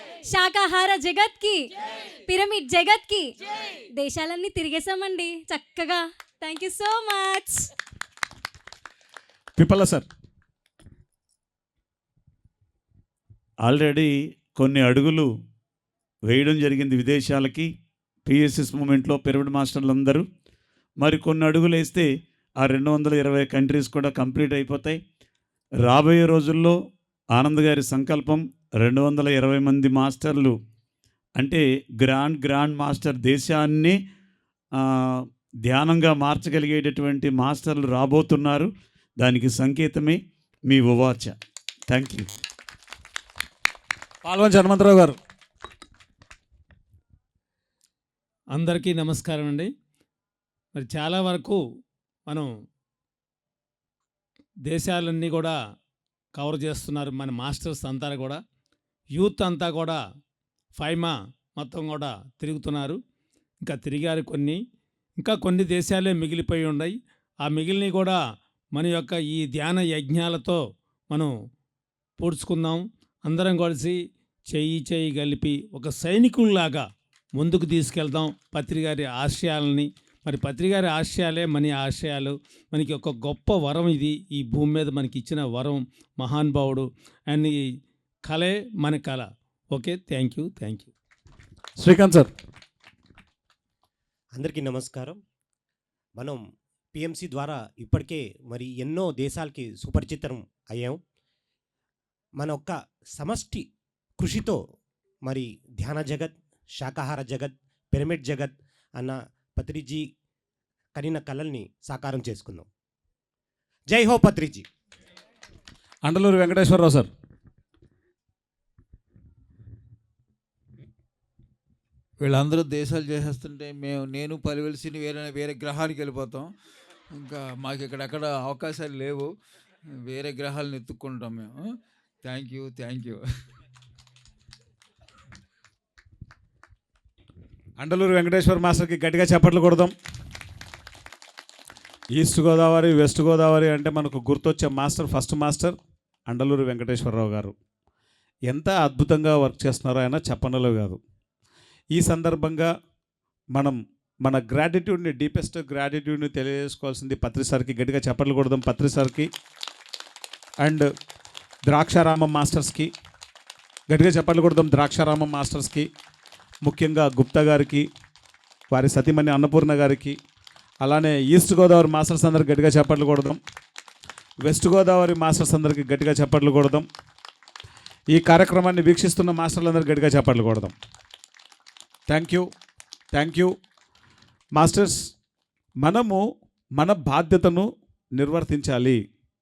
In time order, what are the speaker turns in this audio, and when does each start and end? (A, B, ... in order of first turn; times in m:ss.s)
0:00.3-0:01.7 A
0:02.3-0:03.3 A
0:04.0-0:07.7 A
0:09.6-0:10.1 B
0:13.6-0:15.3 C
0:16.3-0:17.7 C
0:18.3-0:20.2 C
0:21.0-0:22.1 C
0:22.6-0:25.0 C
0:25.8-0:26.8 C
0:27.3-0:30.6 C
0:31.4-0:34.0 C
0:34.8-0:41.3 C
0:41.9-0:42.3 C
0:44.2-0:45.2 B
0:48.6-0:49.7 D
0:50.8-0:51.6 D
0:54.7-0:55.6 D
0:56.4-0:58.4 D
0:59.1-1:00.0 D
1:00.8-1:03.0 D
1:03.6-1:04.6 D
1:05.2-1:06.9 D
1:07.4-1:08.2 D
1:08.7-1:11.3 D
1:12.2-1:14.0 D
1:14.5-1:16.9 D
1:17.4-1:27.6 D
1:28.2-1:30.9 D
1:31.8-1:32.3 B
1:34.4-1:35.2 E
1:36.2-1:36.4 E
1:37.0-1:41.0 E
1:42.4-1:43.7 E
1:44.2-1:44.6 E
1:45.3-1:50.1 E
1:51.0-1:52.7 E
1:53.9-1:54.6 E
1:56.0-1:57.1 B
2:02.2-2:06.5 F
2:07.2-2:09.3 F
2:10.0-2:11.7 F
2:12.2-2:13.2 F
2:17.8-2:19.9 B
2:22.2-2:25.8 B
2:26.3-2:27.5 B
2:28.5-2:31.0 B
2:32.0-2:32.7 B
2:33.6-2:39.3 B
2:41.7-2:42.9 B
2:43.9-2:45.9 B
2:46.6-2:47.9 B
2:48.7-2:50.2 B
2:50.8-2:53.4 B
2:54.4-2:56.9 B
2:58.1-3:00.8 B
3:02.1-3:02.5 B
3:03.1-3:03.5 B
3:04.6-3:05.0 B
3:05.8-3:06.2 B
3:06.8-3:09.0 B